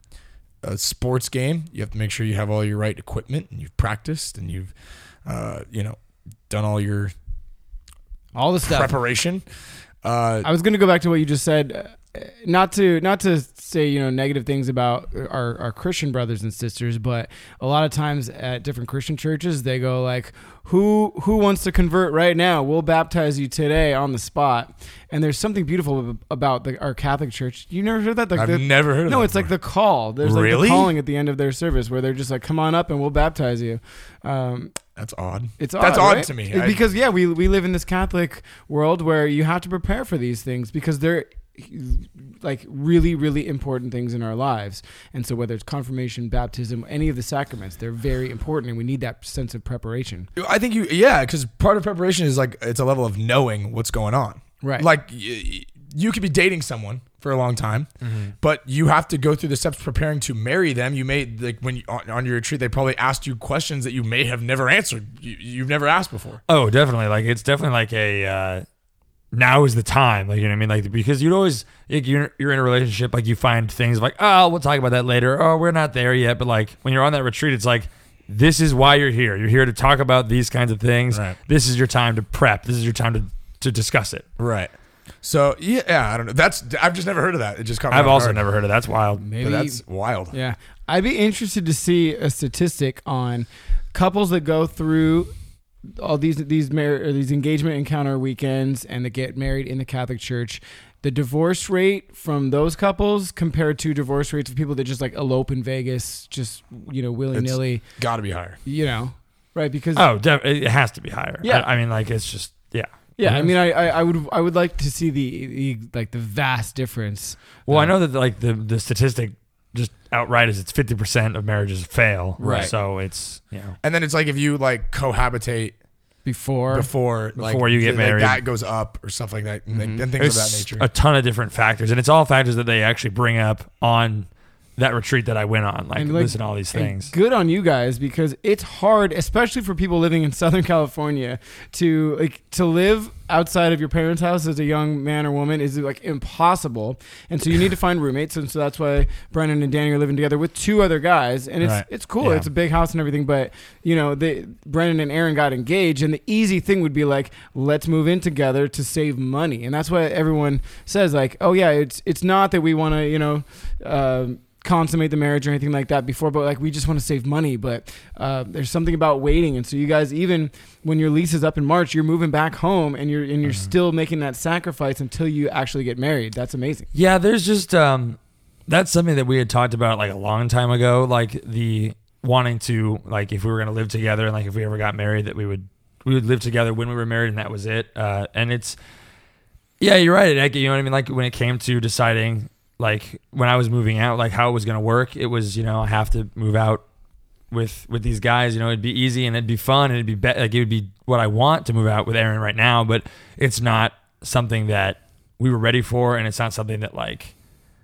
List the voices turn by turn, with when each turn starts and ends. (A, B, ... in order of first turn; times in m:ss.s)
0:00.6-0:04.7 A
0:05.3-0:07.1 A
0:08.3-0:09.0 B
0:08.6-0:09.4 A
0:10.0-0:10.5 A
0:10.4-0:34.7 B
0:28.4-0:29.5 A
0:30.2-0:30.9 A
0:35.0-0:36.8 A
0:35.6-0:50.3 B
0:50.4-0:57.9 A
0:54.6-0:54.9 B
0:58.4-1:06.4 A
1:06.5-1:08.6 C
1:09.3-1:24.2 C
1:21.1-1:21.4 A
1:24.4-1:28.4 A
1:27.9-1:29.2 C
1:29.2-1:35.3 B
1:29.4-1:30.4 A
1:35.8-1:47.8 B
1:47.3-1:48.6 A
1:48.6-1:50.1 B
1:50.0-1:53.5 C
1:51.4-1:51.7 B
1:53.2-1:57.9 B
1:57.7-2:03.8 C
2:02.4-2:02.7 B
2:02.4-2:02.7 A
2:03.8-2:05.8 A
2:06.2-2:06.9 B
2:06.7-2:10.9 A
2:07.4-2:08.4 C
2:09.7-2:10.1 B
2:10.2-2:17.1 C
2:16.0-2:56.9 B
2:32.2-2:32.5 C
2:56.9-3:08.8 C
3:09.8-3:16.8 C
3:17.5-3:27.3 C